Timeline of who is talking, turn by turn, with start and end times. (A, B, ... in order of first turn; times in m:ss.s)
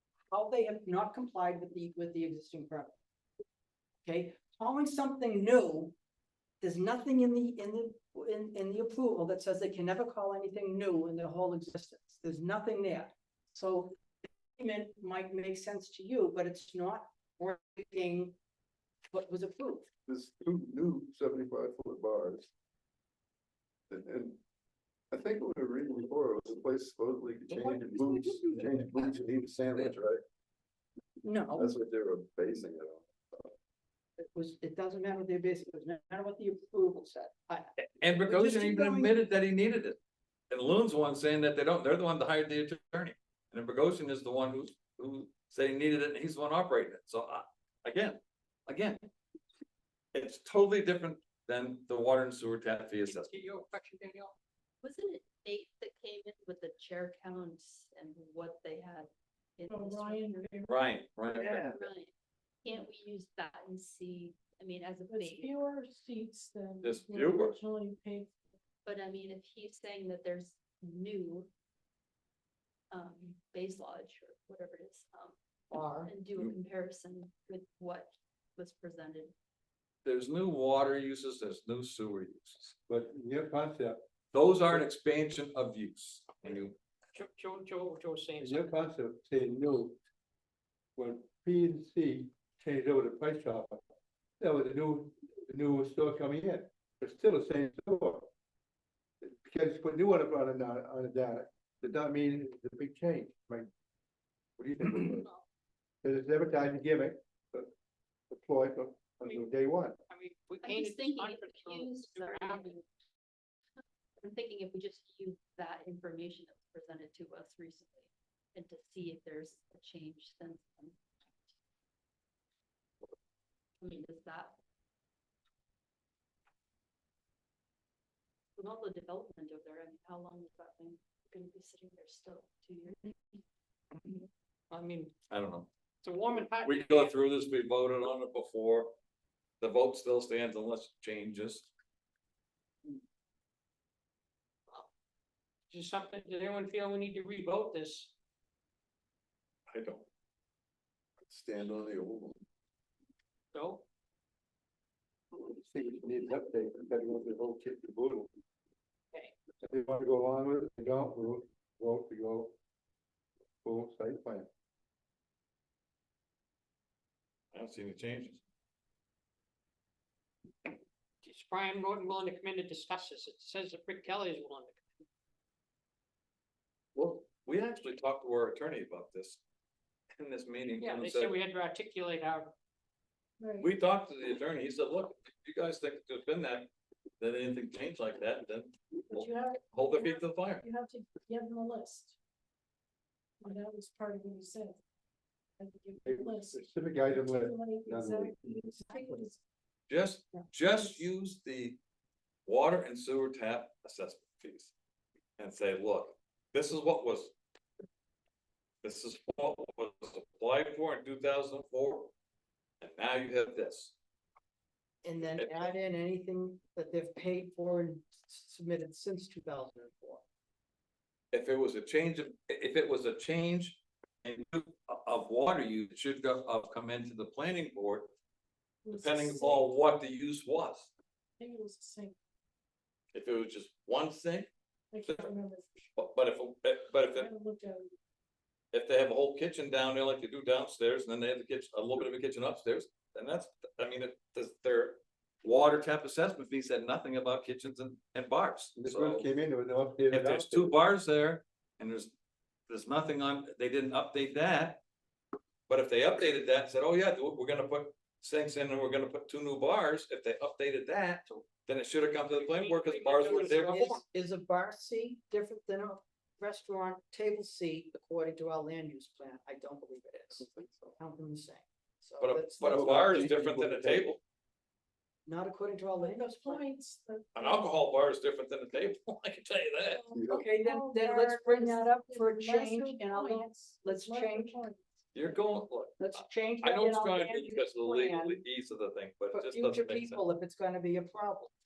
0:00.3-0:02.9 A
0:04.0-0:05.9 A
0:06.6-0:14.0 A
0:14.6-0:18.4 A
0:19.1-0:19.9 A
0:20.1-0:22.5 B
0:23.9-0:24.4 B
0:25.1-0:30.2 B
0:27.5-0:28.8 A
0:31.2-0:31.7 A
0:31.6-0:33.5 B
0:34.3-0:39.2 A
0:38.0-0:40.0 C
0:40.5-0:49.0 C
0:50.1-0:53.6 C
0:53.0-0:54.3 D
0:54.8-1:00.6 E
0:59.7-1:00.8 F
1:00.7-1:01.7 C
1:01.3-1:02.1 E
1:02.6-1:05.5 E
1:05.1-1:08.4 F
1:06.8-1:07.6 C
1:08.8-1:11.5 E
1:12.9-1:15.4 E
1:15.7-1:16.1 A
1:16.0-1:19.3 E
1:20.0-1:22.8 C
1:22.9-1:24.0 G
1:24.3-1:26.7 C
1:27.1-1:28.8 D
1:28.4-1:30.0 G
1:31.0-1:33.8 G
1:34.4-1:38.3 G
1:39.2-1:43.7 G
1:44.6-1:45.3 G
1:46.0-1:47.7 G
1:48.3-1:50.0 G
1:50.1-1:52.6 D
1:50.6-1:52.8 E
1:54.2-2:01.5 E
2:03.8-2:04.5 E
2:08.6-2:13.4 E
2:14.7-2:15.1 D
2:15.3-2:15.7 C
2:16.0-2:17.2 D
2:16.6-2:18.9 C
2:19.6-2:21.7 C
2:25.7-2:28.1 D
2:29.7-2:30.1 C
2:31.2-2:32.4 B
2:33.5-2:33.8 D
2:35.3-2:38.3 G
2:39.6-2:42.6 G
2:43.6-2:44.5 G
2:47.5-2:48.4 C
2:51.2-2:54.8 D
2:56.9-2:59.4 C
3:00.2-3:01.4 C
3:00.8-3:02.5 D
3:03.4-3:03.7 F
3:03.6-3:10.6 C
3:09.1-3:12.2 F
3:13.4-3:14.8 F
3:15.6-3:19.4 F
3:16.0-3:18.5 G
3:19.9-3:21.8 C
3:22.4-3:24.7 C
3:25.4-3:27.3 C
3:28.8-3:32.1 C
3:32.8-3:33.9 C
3:35.0-3:40.2 A
3:35.2-3:35.7 C
3:41.3-3:48.1 C
3:48.8-3:49.8 F
3:48.9-3:50.9 C
3:51.4-3:52.2 F
3:53.1-3:54.5 C
3:54.9-3:55.8 F
3:55.0-3:55.3 C
3:56.0-3:57.3 C
3:57.1-3:57.9 F
3:58.7-4:09.3 C
4:08.8-4:10.7 G
4:10.1-4:12.1 C
4:12.7-4:14.8 C
4:15.7-4:23.9 C
4:22.2-4:24.0 D
4:23.2-4:30.4 A
4:30.4-4:30.9 B
4:31.0-4:33.3 A
4:32.2-4:34.2 C
4:32.7-4:33.3 G
4:32.8-4:34.0 B
4:35.2-4:36.6 A
4:36.0-4:37.7 F
4:37.3-4:40.0 C
4:39.8-4:44.8 F
4:40.1-4:40.4 B
4:40.3-4:44.6 A
4:45.1-4:50.2 C
4:46.0-4:48.4 A
4:49.3-4:51.5 A